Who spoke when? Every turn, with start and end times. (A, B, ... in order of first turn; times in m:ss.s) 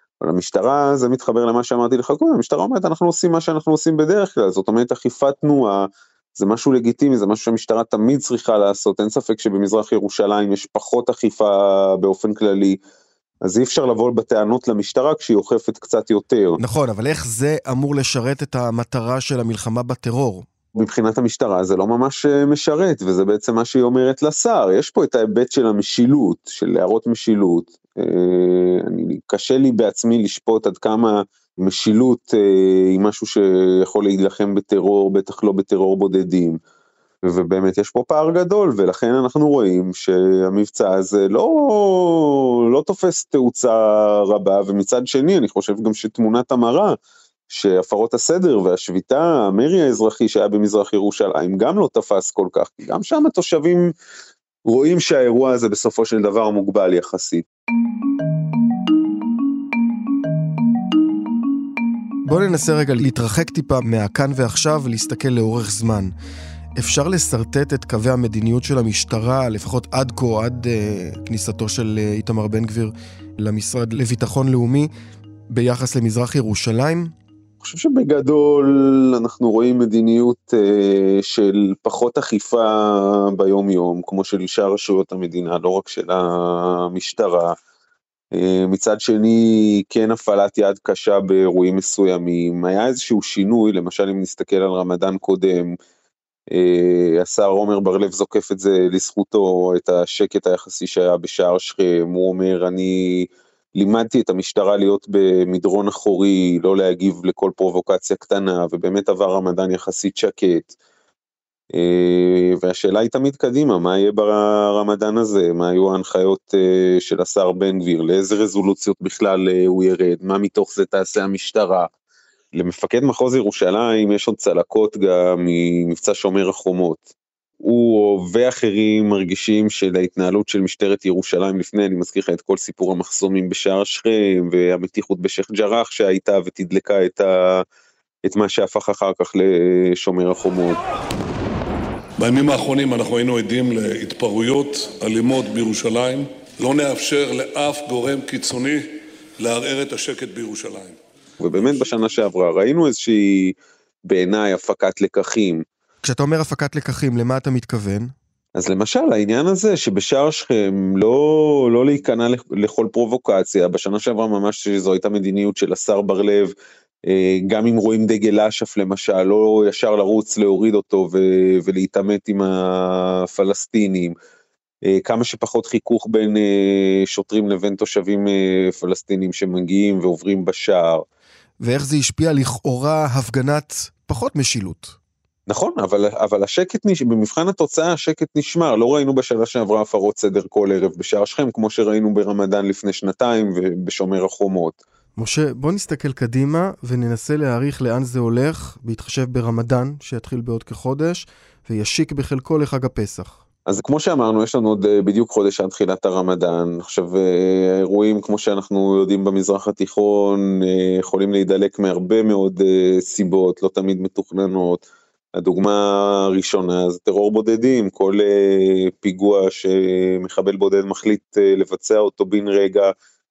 0:00.2-0:12.8 A
0:13.4-0:16.6 A
0:16.6-0:20.5 B
0:20.7-0:36.6 A
0:37.2-0:46.9 A
0:47.5-0:53.9 A
0:54.6-0:57.4 A
1:02.2-1:06.1 B
1:06.8-1:14.9 B
1:15.5-1:17.1 B
1:17.6-1:27.5 A
1:28.3-1:35.8 A
1:36.5-1:50.7 A
1:51.7-2:01.9 A
2:02.5-2:07.0 A
2:07.6-2:17.6 A
2:18.2-2:20.8 A
2:22.2-2:31.0 C
2:31.4-2:33.5 A
2:34.0-2:35.6 A
2:36.0-2:38.1 B
2:38.5-2:46.5 A
2:47.1-2:54.1 A
2:54.8-3:01.0 A
3:01.6-3:05.0 B
3:05.5-3:14.8 A
3:15.2-3:23.4 B
3:23.7-3:34.8 A
3:35.4-3:42.9 A